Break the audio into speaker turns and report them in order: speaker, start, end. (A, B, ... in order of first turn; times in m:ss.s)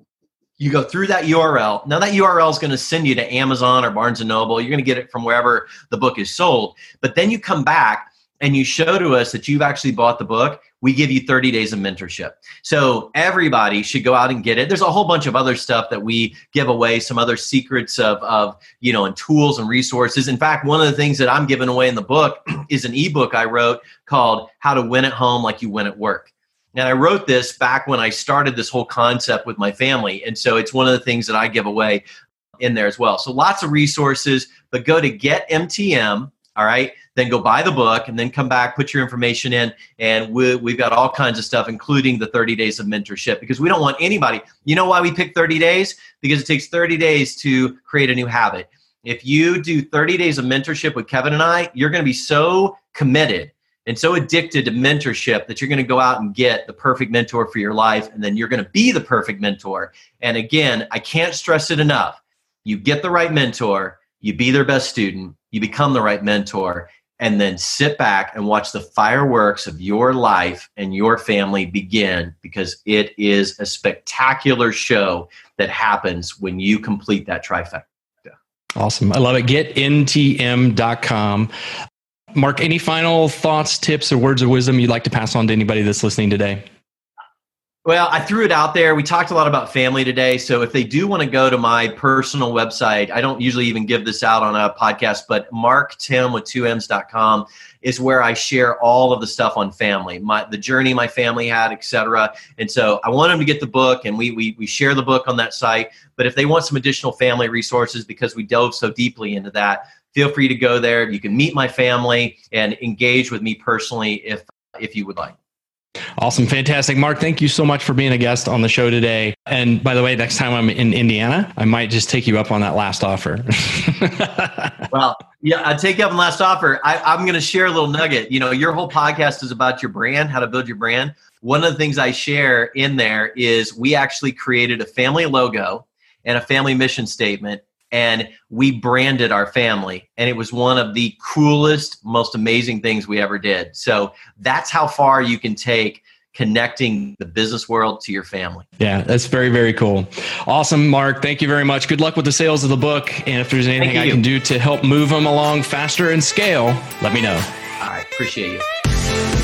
0:00.6-0:32.0 A
0:32.6-1:18.3 A
1:18.8-1:21.5 B
1:22.3-1:26.6 B
1:27.8-1:55.4 A
1:56.2-2:04.8 B
2:04.9-2:28.7 A
2:28.8-2:37.5 B
2:33.8-2:34.2 A
2:37.8-2:38.6 A